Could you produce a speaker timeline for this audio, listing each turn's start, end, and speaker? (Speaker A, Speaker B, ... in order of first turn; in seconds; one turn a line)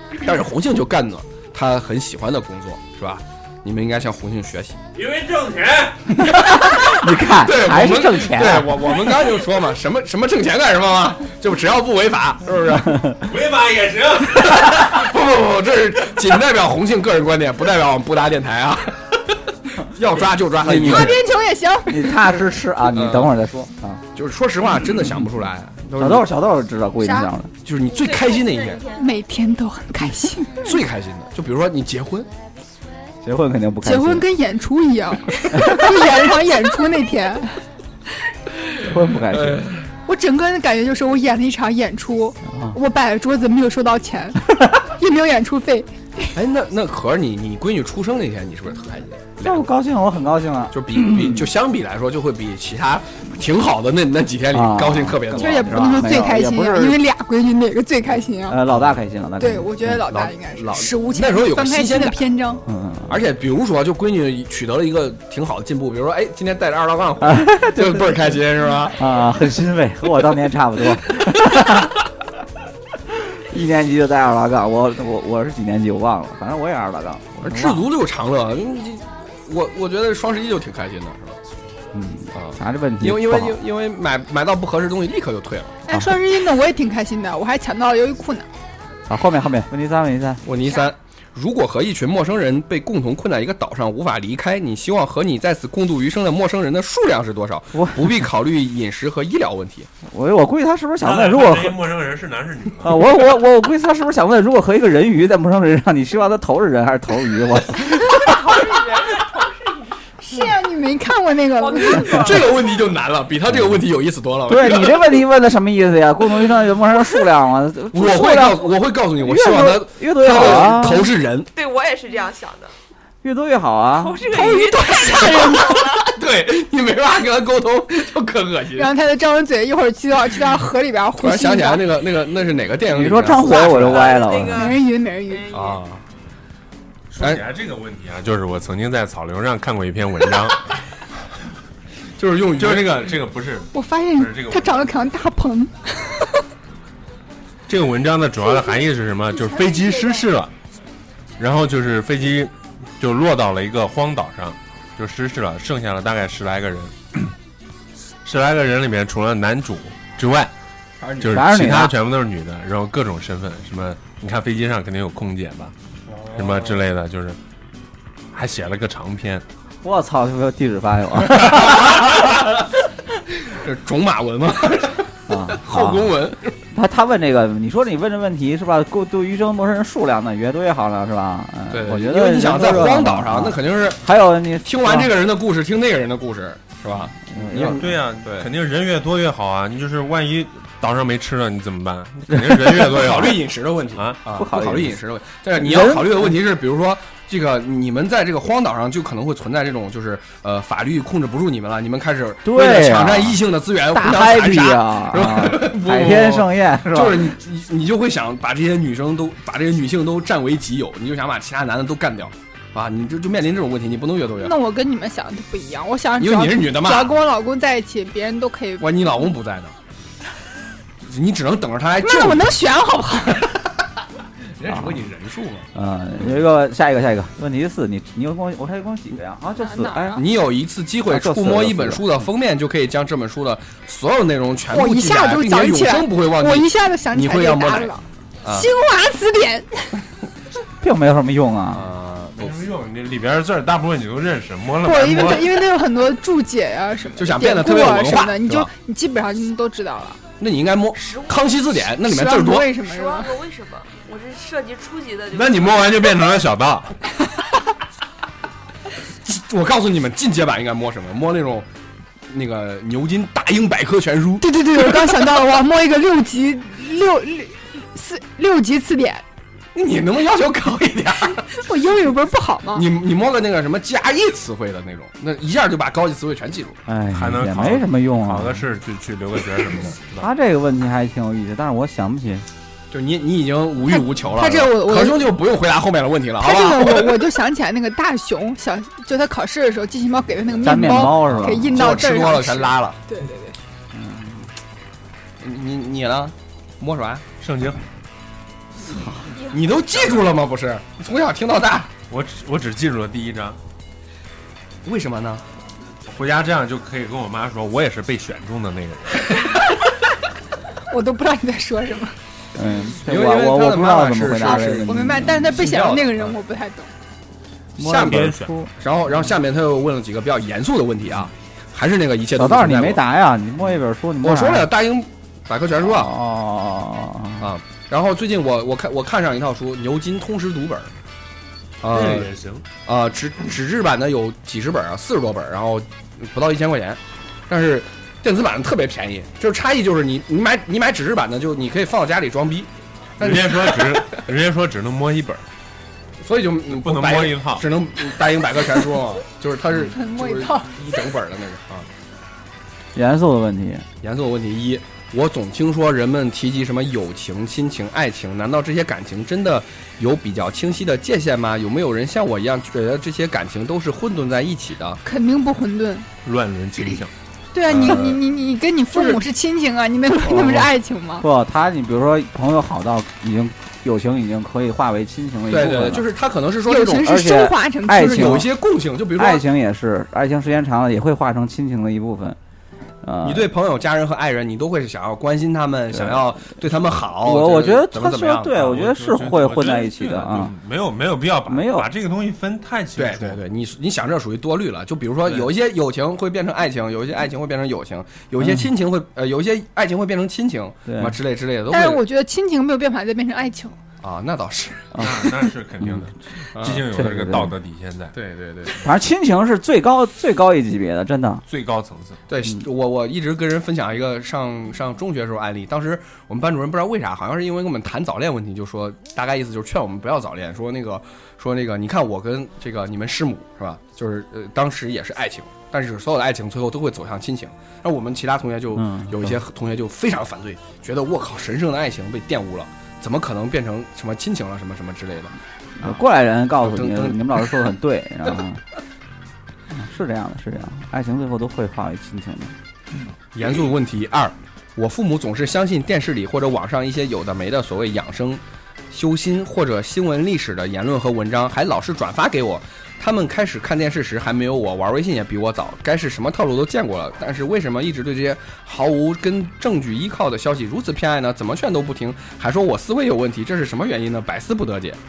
Speaker A: 0.1-4.8
Speaker B: 5.0-6.2
Speaker C: 6.2-9.2
Speaker A: 6.6-13.0
Speaker C: 12.8-13.2
Speaker B: 13.2-14.9
Speaker A: 14.4-19.1
Speaker A: 19.8-21.2
Speaker C: 20.6-21.2
Speaker D: 20.8-22.2
Speaker C: 21.9-24.0
Speaker A: 22.9-23.3
Speaker A: 24.1-26.3
Speaker C: 26.0-27.5
Speaker D: 27.0-27.3
Speaker A: 27.6-28.9
Speaker E: 28.1-29.1
Speaker D: 28.9-30.7
Speaker A: 30.6-32.3
Speaker C: 33.2-34.2
Speaker D: 33.9-37.6
Speaker C: 35.5-35.9
Speaker C: 38.8-39.7
Speaker A: 39.3-39.8
Speaker D: 40.1-46.3
Speaker C: 42.5-42.8
Speaker A: 46.4-49.7
Speaker C: 49.4-51.5
Speaker A: 50.7-56.1
Speaker C: 54.5-57.0
Speaker D: 55.4-58.6
Speaker C: 58.5-60.0
Speaker A: 58.7-59.0
Speaker D: 59.4-62.6
Speaker A: 60.1-62.2
Speaker C: 62.7-63.2
Speaker A: 63.1-69.0
Speaker C: 67.2-72.0
Speaker C: 73.1-77.8
Speaker A: 77.4-81.4
Speaker C: 81.9-83.6
Speaker A: 82.3-85.8
Speaker D: 85.9-88.5
Speaker C: 85.9-86.2
Speaker C: 89.1-90.5
Speaker A: 90.5-99.9
Speaker C: 97.8-98.2
Speaker C: 100.1-101.8
Speaker B: 101.0-103.0
Speaker C: 102.8-108.6
Speaker E: 107.9-110.0
Speaker D: 110.2-112.3
Speaker E: 111.6-112.8
Speaker A: 112.1-115.2
Speaker C: 114.5-121.1
Speaker A: 117.9-121.5
Speaker E: 121.5-122.7
Speaker C: 123.2-124.2
Speaker E: 124.0-126.2
Speaker D: 124.3-126.0
Speaker A: 126.2-128.9
Speaker D: 128.8-131.9
Speaker A: 131.2-134.3
Speaker C: 132.9-134.8
Speaker E: 133.3-135.8
Speaker D: 134.5-135.5
Speaker A: 135.5-136.0
Speaker B: 137.1-140.7
Speaker A: 142.2-143.1
Speaker B: 142.6-145.0
Speaker D: 143.7-146.3
Speaker B: 147.7-150.5
Speaker D: 149.3-150.3
Speaker B: 151.4-157.3
Speaker B: 158.2-160.5
Speaker A: 161.0-161.3
Speaker B: 161.2-165.7
Speaker C: 161.2-161.9
Speaker A: 166.1-166.8
Speaker B: 166.3-167.4
Speaker B: 168.3-169.4
Speaker C: 169.8-172.1
Speaker A: 171.8-172.4
Speaker A: 173.4-176.6
Speaker C: 175.3-176.2
Speaker C: 176.7-185.1
Speaker A: 181.7-184.0
Speaker A: 184.6-188.5
Speaker C: 187.3-188.0
Speaker B: 187.7-193.4
Speaker C: 192.3-192.9
Speaker A: 192.8-214.6
Speaker C: 194.3-195.0
Speaker C: 195.6-196.4
Speaker C: 202.4-207.4
Speaker D: 214.4-219.1
Speaker A: 216.2-217.2
Speaker A: 218.8-219.8
Speaker A: 221.0-222.6
Speaker D: 222.0-223.5
Speaker A: 224.5-226.4
Speaker C: 224.7-225.0
Speaker C: 225.8-230.2
Speaker D: 229.6-230.2
Speaker A: 230.2-237.9
Speaker C: 231.1-232.1
Speaker D: 234.7-240.0
Speaker A: 238.4-238.7
Speaker C: 240.8-241.8
Speaker A: 241.7-242.6
Speaker B: 242.4-245.6
Speaker D: 244.8-250.2
Speaker A: 247.2-248.7
Speaker A: 250.4-252.7
Speaker E: 251.0-251.4
Speaker D: 252.0-253.3
Speaker E: 252.8-256.2
Speaker B: 255.3-256.9
Speaker A: 259.2-261.7
Speaker A: 262.3-265.4
Speaker D: 264.4-269.2
Speaker A: 269.8-271.5
Speaker D: 271.6-272.9
Speaker A: 272.7-276.8
Speaker C: 276.9-278.6
Speaker B: 277.1-280.3
Speaker C: 280.2-282.5
Speaker A: 282.9-287.2
Speaker D: 283.9-285.2
Speaker D: 286.4-293.6
Speaker C: 290.6-291.8
Speaker A: 291.0-293.0
Speaker C: 293.9-294.5
Speaker A: 295.4-297.3
Speaker B: 297.4-297.8
Speaker C: 298.8-299.4
Speaker E: 299.3-300.3
Speaker A: 299.5-301.9
Speaker B: 302.1-303.6
Speaker A: 304.9-305.4
Speaker B: 306.1-309.6
Speaker D: 310.9-312.2
Speaker C: 312.6-315.6
Speaker A: 313.0-316.3
Speaker D: 314.7-316.9
Speaker C: 317.8-318.7
Speaker A: 317.8-323.0
Speaker B: 318.0-318.5
Speaker C: 322.4-324.7
Speaker A: 324.2-326.1
Speaker C: 325.8-327.5
Speaker A: 327.4-330.9
Speaker A: 331.8-332.3
Speaker B: 331.9-332.6
Speaker A: 332.9-344.2
Speaker B: 343.2-345.4
Speaker A: 346.2-351.9
Speaker B: 346.7-347.7
Speaker D: 349.8-350.8
Speaker C: 352.9-353.9
Speaker A: 354.0-365.0
Speaker D: 365.0-366.1
Speaker B: 366.2-367.1
Speaker D: 367.5-371.2
Speaker A: 367.7-368.2
Speaker A: 368.9-369.2
Speaker C: 370.2-376.1
Speaker A: 375.5-377.2
Speaker D: 376.7-378.4
Speaker C: 377.0-378.5
Speaker A: 377.9-379.4
Speaker C: 379.2-382.4
Speaker C: 383.0-383.5
Speaker A: 383.2-388.6
Speaker C: 385.9-386.3
Speaker C: 387.2-390.5
Speaker B: 388.6-393.4
Speaker C: 391.5-391.9
Speaker A: 393.0-402.0
Speaker C: 398.4-398.7
Speaker C: 400.9-401.2
Speaker D: 401.7-403.8
Speaker A: 404.0-405.0
Speaker C: 405.0-406.1
Speaker B: 405.0-408.2
Speaker A: 406.6-406.9
Speaker C: 406.9-407.5
Speaker A: 408.1-408.8
Speaker C: 408.8-411.4
Speaker B: 411.5-412.2
Speaker A: 412.3-436.0
Speaker C: 428.8-429.4
Speaker C: 435.8-438.6
Speaker A: 436.6-437.5
Speaker C: 439.7-442.6
Speaker A: 443.3-465.0